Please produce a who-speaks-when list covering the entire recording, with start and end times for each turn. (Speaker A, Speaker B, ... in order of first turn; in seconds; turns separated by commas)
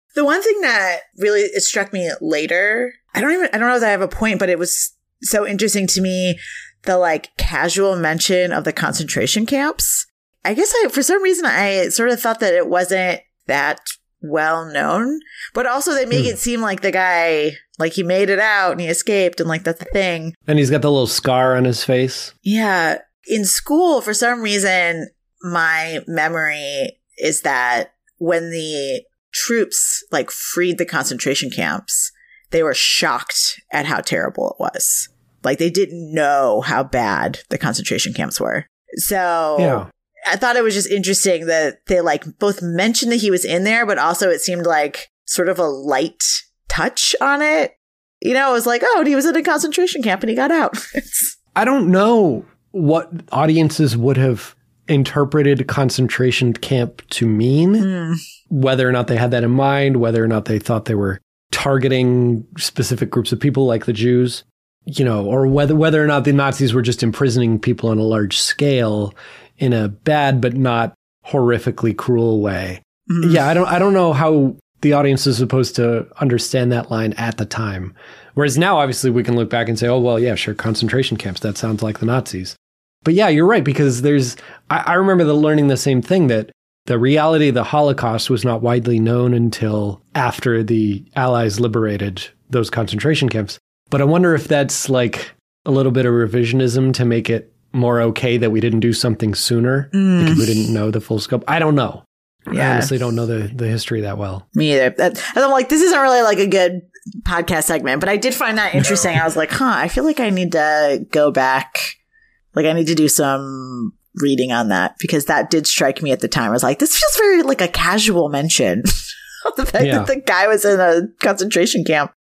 Speaker A: 0.1-20.3, Speaker B: 20.5-22.3, Speaker A: 22.4-51.3, Speaker B: 39.6-39.9, Speaker B: 51.5-57.9, Speaker A: 57.8-58.2, Speaker B: 58.5-104.4, Speaker A: 73.1-73.4, Speaker A: 99.9-100.5, Speaker A: 102.5-102.9, Speaker A: 104.5-112.0, Speaker A: 112.5-122.1, Speaker B: 119.8-120.1